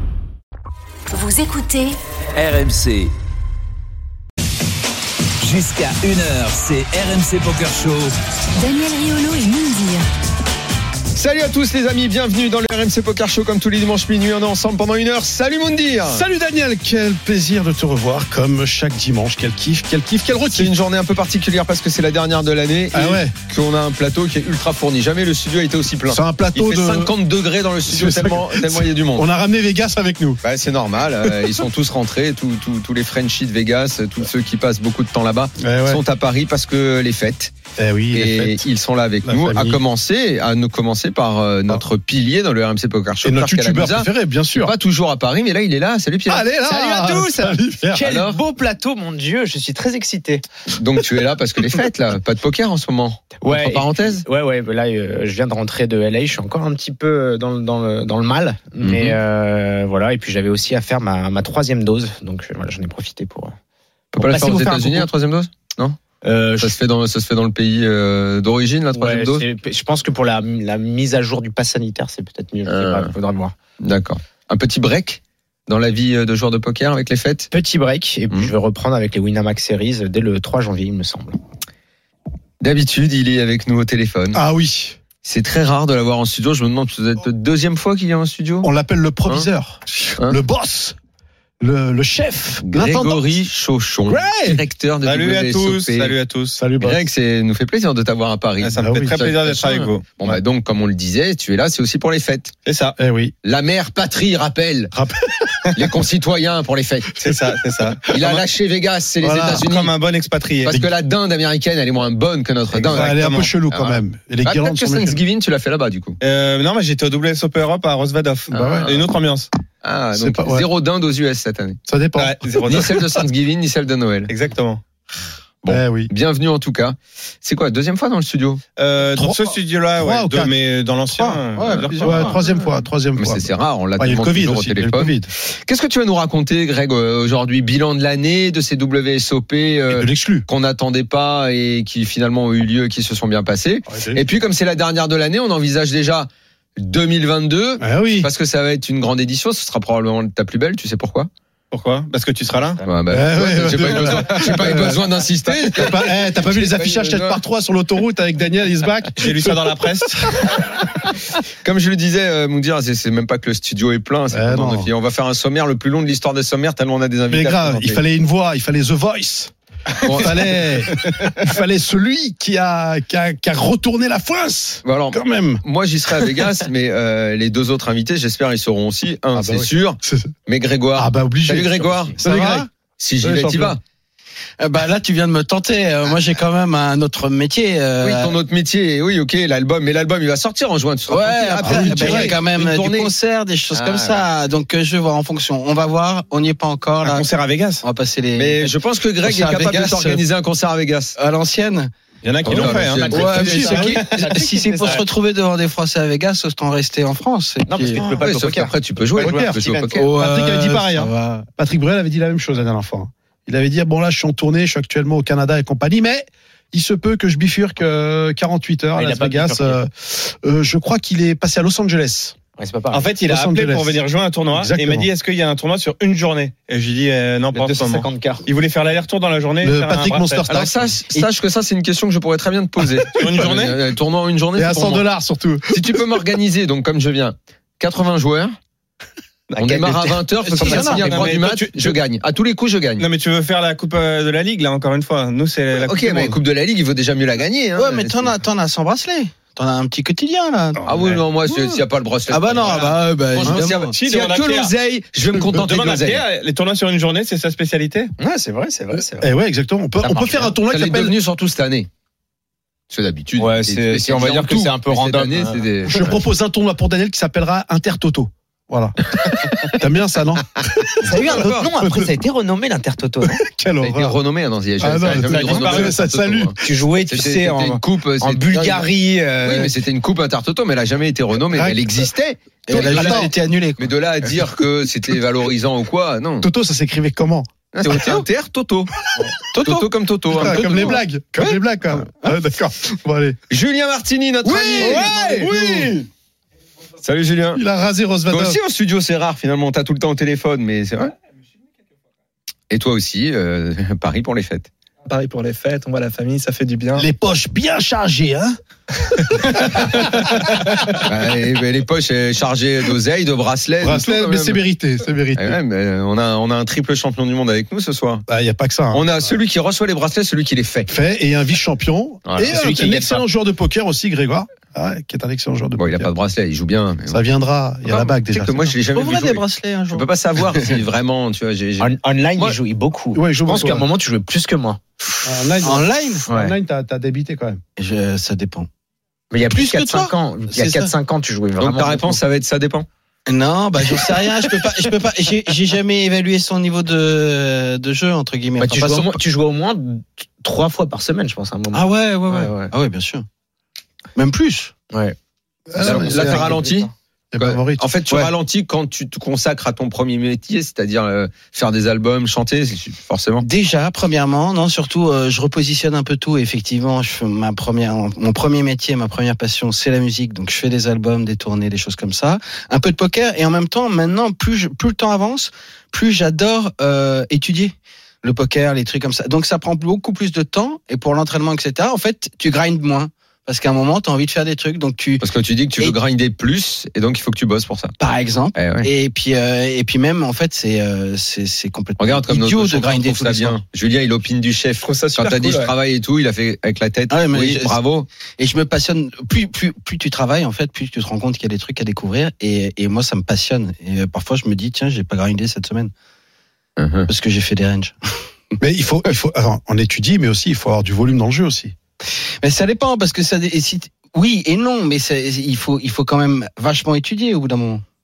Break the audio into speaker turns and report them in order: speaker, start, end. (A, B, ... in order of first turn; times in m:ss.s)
0:01.1-0:02.0 A
0:02.4-0:03.1 B
0:05.4-0:08.1 B
0:08.6-0:10.0 A
0:11.1-0:16.2 C
0:16.1-0:20.7 D
0:20.5-0:29.2 C
0:22.9-0:23.3 D
0:26.1-0:27.1 D
0:27.9-0:30.4 D
0:30.4-0:37.5 C
0:31.2-0:31.6 D
0:35.6-0:36.0 D
0:37.8-0:38.7 D
0:38.1-0:46.5 C
0:39.2-0:39.8 D
0:43.2-0:44.7 D
0:46.3-0:48.1 D
0:46.6-0:50.4 E
0:48.0-0:48.4 C
0:50.7-0:54.2 C
0:53.4-1:03.5 E
0:58.8-0:59.2 C
1:04.1-1:06.0 C
1:04.2-1:05.1 E
1:06.2-1:06.7 E
1:06.6-1:09.4 C
1:08.9-1:13.5 E
1:12.7-1:13.1 C
1:13.8-1:17.5 C
1:17.5-1:21.4 E
1:22.6-1:24.4 C
1:24.3-1:25.0 D
1:25.2-1:28.7 C
1:28.6-1:31.0 D
1:31.6-1:33.3 D
1:32.6-1:36.1 C
1:34.1-1:34.6 D
1:35.0-1:36.6 F
1:36.6-1:37.0 D
1:36.8-1:42.5 C
1:38.6-1:40.1 F
1:38.8-1:39.2 D
1:42.6-1:43.0 F
1:43.0-1:43.3 D
1:43.4-1:44.9 C
1:44.9-1:45.8 D
1:45.8-1:47.2 C
1:47.2-1:48.4 F
1:48.1-1:49.9 C
1:49.2-1:49.6 D
1:49.6-1:50.7 F
1:50.6-1:56.2 C
1:52.7-1:53.5 F
1:52.9-1:55.2 D
1:56.2-1:59.5 F
1:58.5-1:58.9 D
1:58.5-1:59.0 C
1:59.8-2:01.8 C
2:00.1-2:00.7 D
2:01.9-2:02.9 D
2:02.2-2:03.0 F
2:02.6-2:04.3 C
2:04.3-2:04.8 F
2:05.6-2:08.6 C
2:05.7-2:06.1 D
2:08.8-2:12.4 F
2:09.2-2:10.5 D
2:11.2-2:12.3 G
2:12.0-2:15.3 D
2:13.2-2:31.3 C
2:19.9-2:20.4 D
2:23.9-2:24.2 D
2:27.8-2:28.3 D
2:31.7-2:32.8 F
2:32.8-2:37.4 C
2:33.1-2:40.6 D
2:39.2-2:40.3 F
2:41.6-2:48.0 C
2:44.3-2:44.9 D
2:47.3-2:55.6 D
2:50.0-2:50.8 C
2:54.8-3:02.2 C
2:59.3-3:00.3 D
3:00.9-3:02.7 D
3:02.2-3:02.7 G
3:03.0-3:03.8 C
3:03.2-3:03.8 D
3:04.6-3:08.3 G
3:08.0-3:13.1 C
3:11.1-3:17.3 G
3:11.6-3:12.3 D
3:13.7-3:14.2 C
3:17.0-3:17.8 F
3:17.8-3:20.2 G
3:18.4-3:21.2 C
3:21.2-3:21.9 G
3:22.2-3:24.0 F
3:22.4-3:23.7 C
3:22.5-3:25.0 E
3:23.1-3:28.0 G
3:27.6-3:29.9 E
3:28.2-3:30.1 C
3:29.2-3:29.6 D
3:29.9-3:31.5 G
3:30.2-3:42.4 D
3:39.0-3:39.8 E
3:42.6-3:43.1 E
3:42.9-3:50.7 F
3:43.2-3:44.0 D
3:44.5-3:45.1 D
3:47.5-3:48.4 E
3:49.6-3:50.9 D
3:50.5-3:55.0 C
3:53.1-3:53.8 F
3:54.6-3:56.2 D
3:55.7-3:58.5 C
3:59.6-4:00.0 E
3:59.6-4:03.0 C
4:00.4-4:01.3 G
4:00.6-4:01.9 F
4:03.0-4:06.3 F
4:05.8-4:08.3 C
4:07.8-4:10.9 G
4:10.8-4:11.1 D
4:10.9-4:16.2 C
4:11.5-4:11.8 G
4:12.3-4:13.9 G
4:13.9-4:14.7 F
4:15.6-4:18.1 F
4:18.2-4:19.3 E
4:19.0-4:21.2 D
4:20.0-4:20.5 E
4:20.7-4:21.9 C
4:22.9-4:26.1 C
4:23.4-4:25.6 E
4:25.9-4:32.1 D
4:31.0-4:33.4 E
4:31.2-4:31.7 C
4:33.2-4:34.1 D
4:33.8-4:38.8 C
4:34.8-4:36.5 D
4:35.2-4:36.0 F
4:36.6-4:39.7 E
4:39.4-4:46.5 C
4:41.5-4:42.1 D
4:42.7-4:43.9 G
4:42.7-4:43.3 D
4:46.4-4:47.5 D
4:47.7-4:49.0 C
4:47.8-4:48.2 G
4:49.5-4:52.4 G
4:49.6-4:51.0 C
4:50.3-4:53.4 D
4:53.5-4:55.8 C
4:54.6-4:55.4 G
4:54.7-4:56.1 D
4:57.0-4:57.6 C
4:57.5-4:58.6 D
4:58.3-5:01.1 C
5:02.7-5:04.7 C
5:05.0-5:07.1 H
5:06.9-5:08.6 D
5:09.4-5:09.8 D
5:10.4-5:10.7 D
5:10.9-5:14.6 C
5:13.8-5:15.6 D
5:15.4-5:18.2 C
5:18.3-5:19.3 D
5:18.9-5:20.9 C
5:20.9-5:26.1 D
5:22.4-5:23.2 E
5:25.8-5:27.2 C
5:27.1-5:28.7 D
5:27.8-5:32.6 C
5:28.9-5:30.7 G
5:31.8-5:34.8 E
5:33.1-5:33.8 D
5:35.2-5:37.6 D
5:35.6-5:36.2 G
5:36.3-5:36.5 E
5:37.8-5:38.7 G
5:39.3-5:42.2 E
5:39.5-5:40.9 G
5:41.6-5:42.9 C
5:43.3-5:49.2 G
5:48.6-5:52.7 E
5:51.7-5:53.2 G
5:54.1-5:54.7 G
5:54.9-5:55.2 E
5:55.7-5:56.6 D
5:55.8-6:03.4 C
5:55.8-5:56.9 E
5:57.3-5:57.8 D
6:03.4-6:25.2 G
6:25.2-6:28.0 C
6:28.0-6:33.6 G
6:28.5-6:28.9 C
6:32.0-6:38.1 C
6:34.8-6:35.7 H
6:37.1-6:37.8 G
6:38.4-6:45.9 G
6:46.8-6:47.1 C
6:47.1-6:47.9 G
6:48.6-6:51.7 D
6:52.4-6:57.8 G